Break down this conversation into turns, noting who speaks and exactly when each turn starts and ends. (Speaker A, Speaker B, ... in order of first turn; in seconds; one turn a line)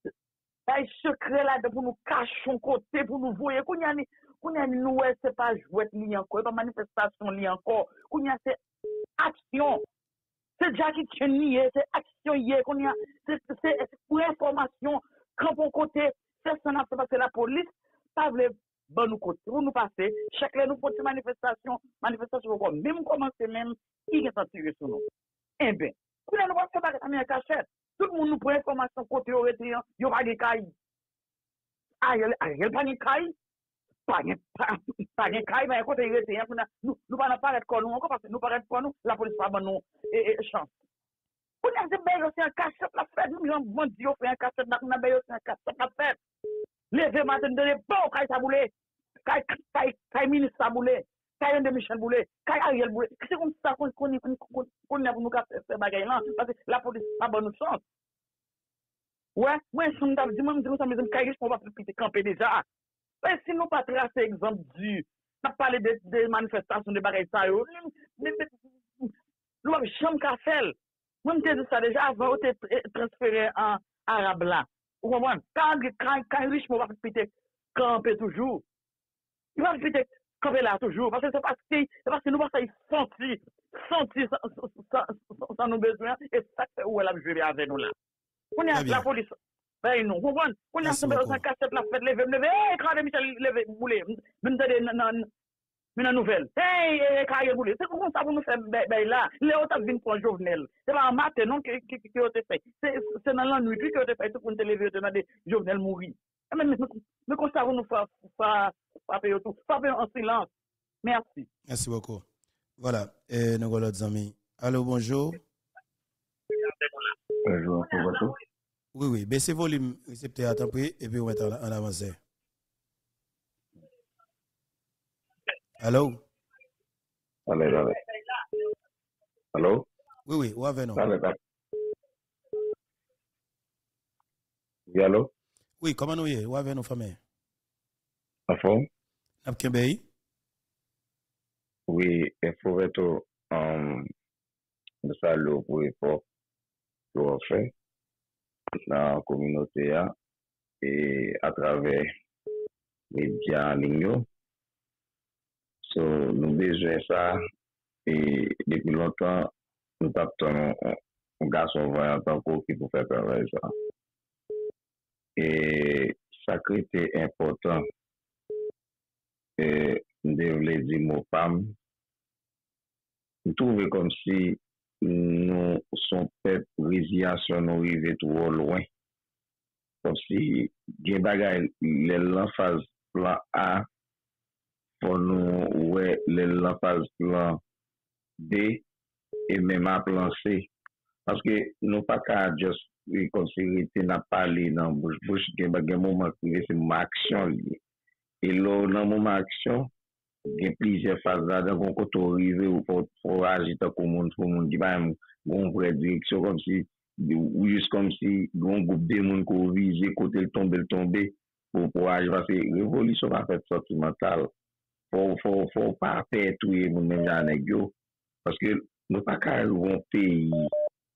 Speaker A: 0.7-8.6
Speaker A: 9.2-9.8
Speaker A: 10.6-25.1
Speaker A: 25.6-30.7
Speaker A: 32.0-33.3
Speaker A: 34.1-40.7
Speaker A: 41.6-46.2
Speaker A: 46.9-48.7
Speaker A: 49.3-57.8
Speaker A: 59.4-62.6
Speaker A: 63.2-69.1
Speaker A: 69.6-78.6
Speaker A: 79.6-87.9
Speaker A: 88.5-95.3
Speaker B: 88.7-89.1
Speaker B: 90.8-91.5
Speaker A: 96.0-110.5
Speaker A: 111.0-111.5
Speaker B: 111.7-112.2
Speaker B: 112.8-115.4
Speaker C: 117.5-118.3
Speaker B: 118.9-122.2
Speaker B: 125.8-126.2
Speaker C: 127.5-128.0
Speaker C: 129.6-129.9
Speaker B: 130.3-131.0
Speaker C: 131.0-131.4
Speaker C: 134.9-135.3
Speaker B: 135.8-137.2
Speaker C: 138.5-138.9
Speaker B: 139.4-140.0
Speaker C: 141.9-144.1
Speaker C: 145.0-146.2
Speaker C: 147.1-147.7
Speaker C: 148.9-150.1
Speaker C: 150.8-152.1
Speaker C: 153.1-154.3
Speaker C: 155.9-157.4
Speaker C: 158.1-159.5
Speaker C: 160.0-163.7
Speaker C: 165.4-167.8
Speaker C: 169.6-171.8
Speaker C: 173.5-178.9
Speaker C: 180.0-183.9
Speaker C: 185.0-187.6
Speaker C: 188.4-188.8
Speaker C: 189.5-190.7
Speaker C: 191.3-197.8
Speaker C: 198.4-199.9
Speaker C: 200.5-214.5
Speaker C: 215.1-217.9
Speaker C: 218.5-220.7